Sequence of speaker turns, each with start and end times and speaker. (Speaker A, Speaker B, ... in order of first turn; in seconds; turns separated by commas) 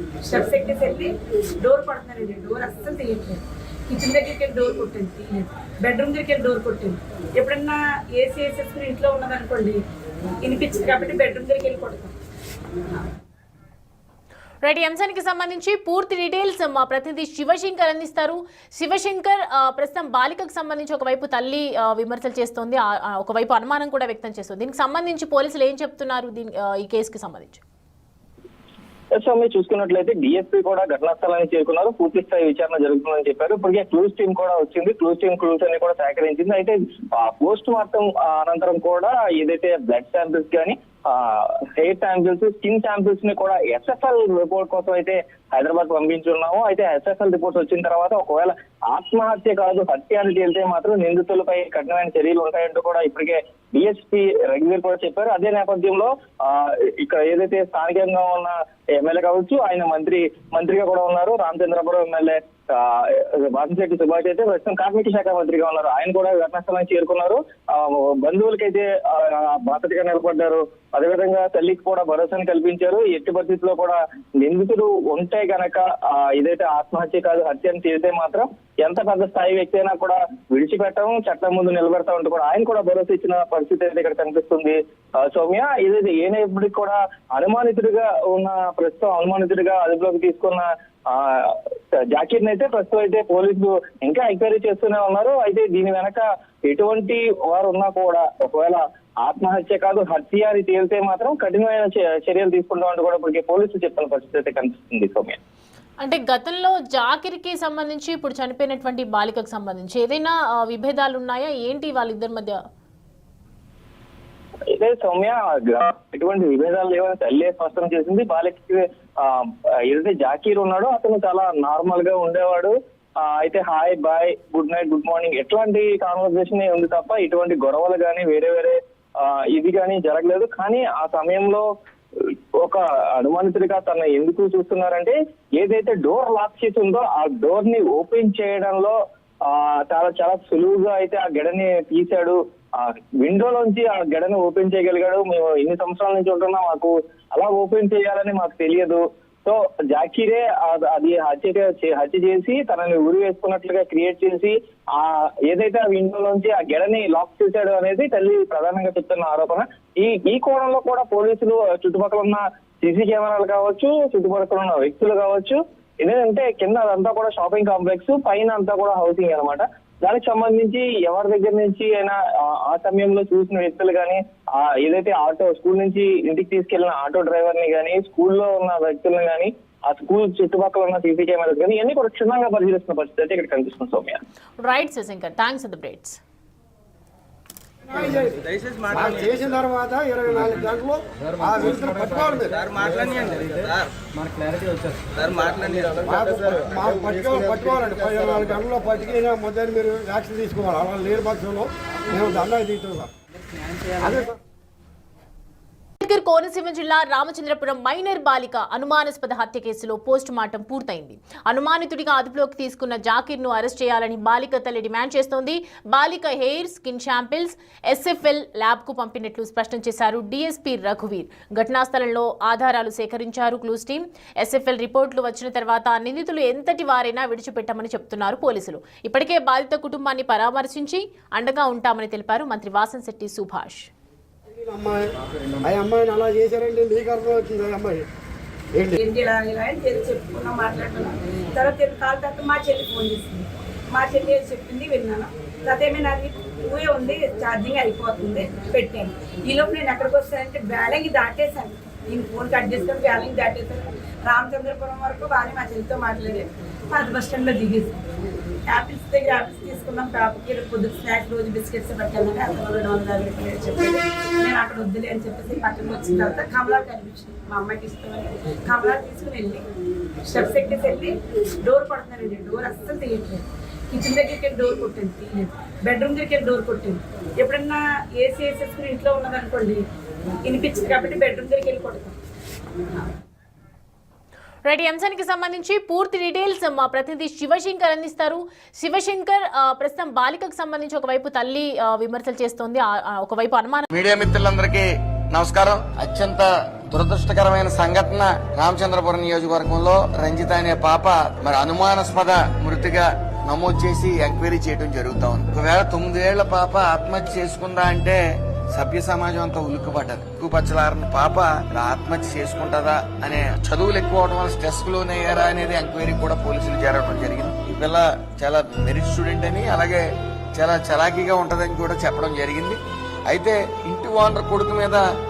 Speaker A: 0.2-9.8, Speaker A: 10.4-12.1, Speaker B: 14.6-27.6, Speaker C: 29.1-105.4, Speaker B: 106.0-112.6, Speaker C: 114.7-131.6, Speaker C: 132.2-184.2, Speaker B: 184.6-186.2, Speaker D: 187.9-193.3, Speaker D: 195.8-203.1, Speaker D: 204.0-204.3, Speaker B: 206.0-233.9, Speaker D: 234.5-238.1, Speaker D: 238.7-239.0, Speaker A: 239.0-258.0, Speaker A: 258.7-269.6, Speaker A: 270.2-279.8, Speaker A: 280.4-282.1, Speaker B: 284.6-293.9, Speaker E: 293.9-308.2, Speaker E: 308.7-320.0, Speaker E: 320.6-325.0